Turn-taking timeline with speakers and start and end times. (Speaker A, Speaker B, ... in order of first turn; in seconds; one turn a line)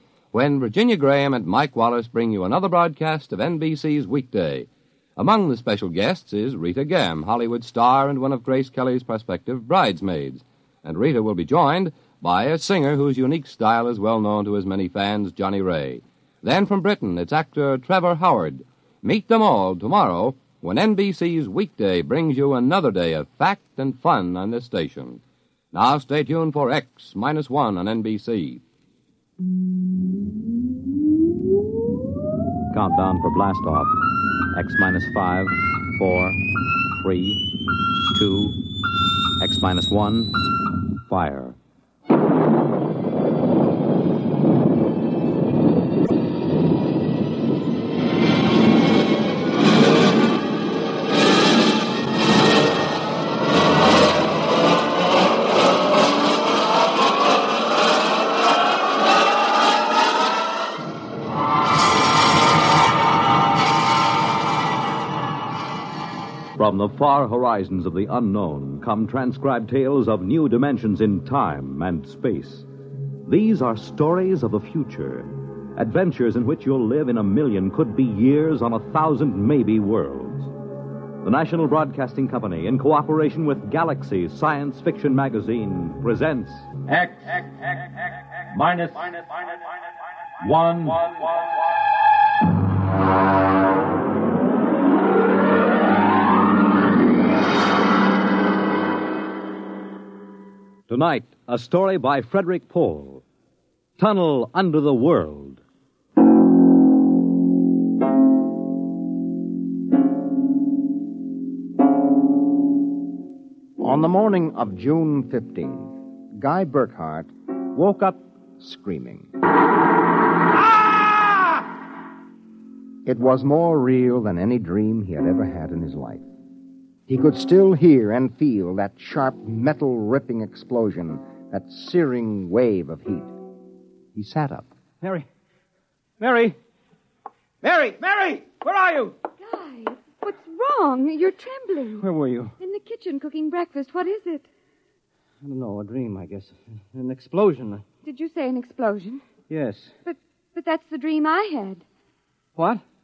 Speaker A: 0.3-25.2
Speaker A: 25.7-28.6
Speaker B: 32.7-34.0
Speaker B: 34.5-37.4
Speaker B: 38.1-38.6
Speaker B: 39.4-40.4
Speaker B: 41.1-41.6
Speaker B: 66.6-72.7
Speaker B: 73.2-80.5
Speaker B: 81.2-86.8
Speaker B: 88.7-89.2
Speaker B: 90.4-91.0
Speaker B: 100.9-103.2
Speaker B: 104.0-105.6
Speaker C: 113.8-119.3
Speaker C: 123.1-126.2
Speaker C: 127.1-133.3
Speaker C: 134.2-134.7
Speaker D: 136.2-136.6
Speaker D: 137.6-139.2
Speaker E: 139.4-142.1
Speaker D: 142.0-142.5
Speaker E: 142.6-144.5
Speaker D: 145.4-147.8
Speaker E: 148.0-149.2
Speaker D: 149.5-149.9
Speaker E: 150.1-151.8
Speaker D: 152.6-152.8